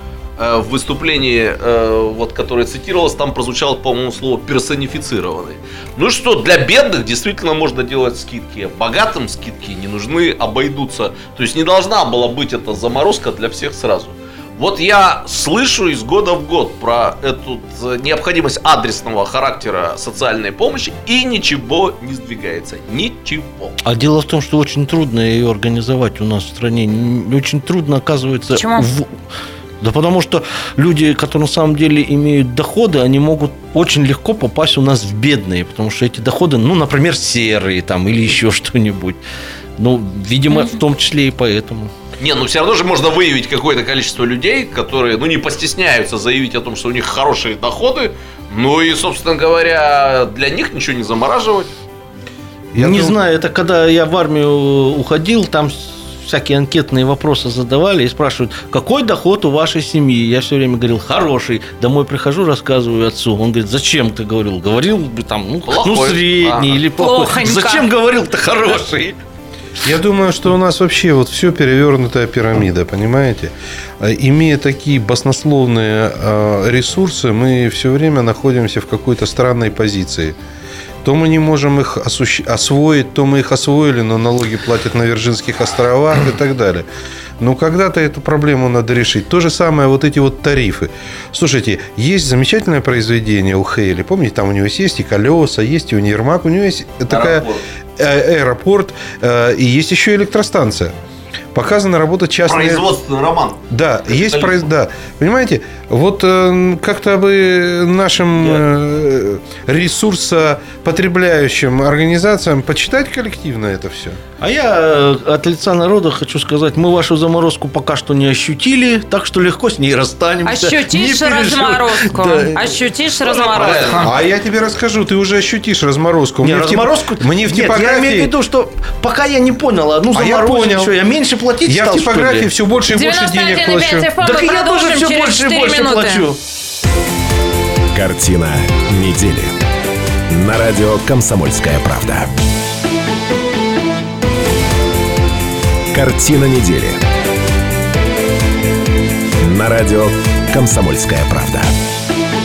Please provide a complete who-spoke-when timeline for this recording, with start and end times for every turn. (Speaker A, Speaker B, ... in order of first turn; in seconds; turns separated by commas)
Speaker A: 0.4-23.8, Speaker B: 23.8-29.1, Speaker C: 28.5-28.9, Speaker B: 29.8-39.2, Speaker B: 39.8-41.9, Speaker A: 42.2-51.7, Speaker D: 52.7-53.2, Speaker B: 52.8-69.2, Speaker A: 65.6-66.8, Speaker C: 67.0-67.8, Speaker D: 69.8-80.3, Speaker D: 81.0-86.8, Speaker D: 87.4-100.9, Speaker A: 97.1-97.6, Speaker D: 101.5-102.9, Speaker A: 102.5-104.7, Speaker D: 103.7-114.2, Speaker B: 114.4-122.7, Speaker C: 120.4-124.0, Speaker A: 123.2-124.2, Speaker B: 123.5-123.9, Speaker D: 124.0-128.3, Speaker B: 126.4-132.5, Speaker D: 130.1-130.9, Speaker D: 131.6-134.1, Speaker C: 132.9-136.2, Speaker B: 134.2-136.4, Speaker E: 137.9-139.5, Speaker E: 140.3-142.3, Speaker E: 145.9-147.0, Speaker E: 149.4-151.7